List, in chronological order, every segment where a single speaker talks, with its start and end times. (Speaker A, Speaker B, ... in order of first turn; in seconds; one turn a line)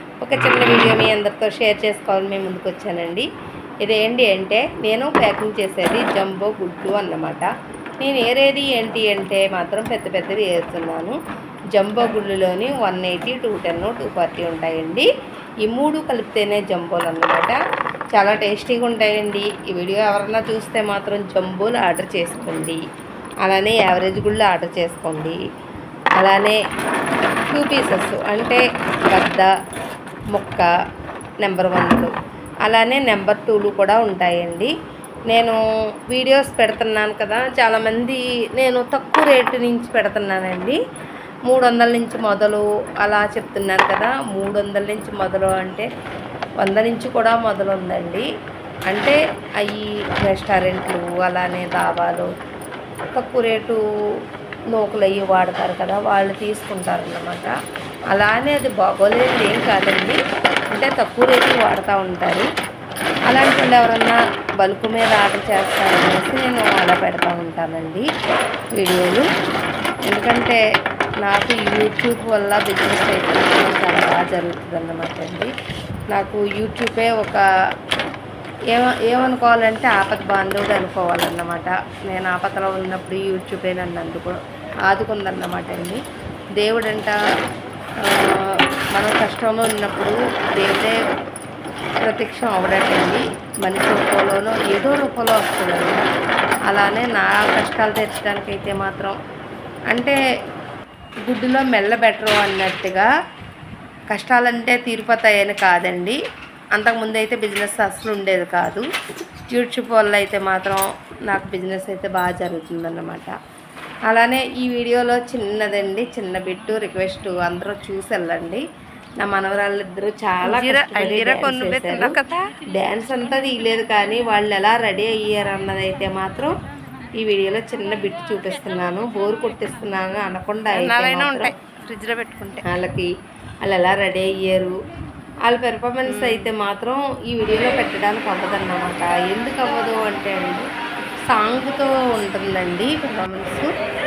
Speaker A: 0.2-3.3
Speaker A: 3.8-7.5
Speaker A: 8.0-11.2
Speaker A: 11.7-15.1
Speaker A: 15.6-17.6
Speaker A: 18.1-22.8
Speaker A: 23.4-25.4
Speaker A: 26.2-26.6
Speaker A: 27.5-29.5
Speaker A: 30.4-30.7
Speaker A: 31.4-32.1
Speaker A: 32.7-34.7
Speaker A: 35.3-40.8
Speaker A: 41.5-45.9
Speaker A: 46.6-48.3
Speaker A: 48.9-52.3
Speaker A: 53.1-53.8
Speaker A: 54.7-57.5
Speaker A: 58.1-60.2
Speaker A: 60.8-62.5
Speaker A: 63.3-68.1
Speaker A: 68.8-69.3
Speaker A: 70.1-70.6
Speaker A: 71.2-75.5
Speaker A: 76.1-77.4
Speaker A: 78.7-86.0
Speaker A: 86.6-87.1
Speaker A: 88.0-90.9
Speaker A: 92.0-96.0
Speaker A: 96.7-99.2
Speaker A: 99.9-100.2
Speaker A: 101.2-103.1
Speaker A: 104.1-106.2
Speaker A: 106.8-108.9
Speaker A: 109.5-113.3
Speaker A: 114.1-118.6
Speaker A: 119.2-122.1
Speaker B: 120.4-122.4
Speaker A: 122.8-126.5
Speaker A: 127.2-131.5
Speaker B: 130.7-132.7
Speaker A: 132.7-133.1
Speaker A: 133.7-134.8
Speaker A: 135.5-140.7
Speaker B: 136.1-136.5
Speaker A: 141.3-143.7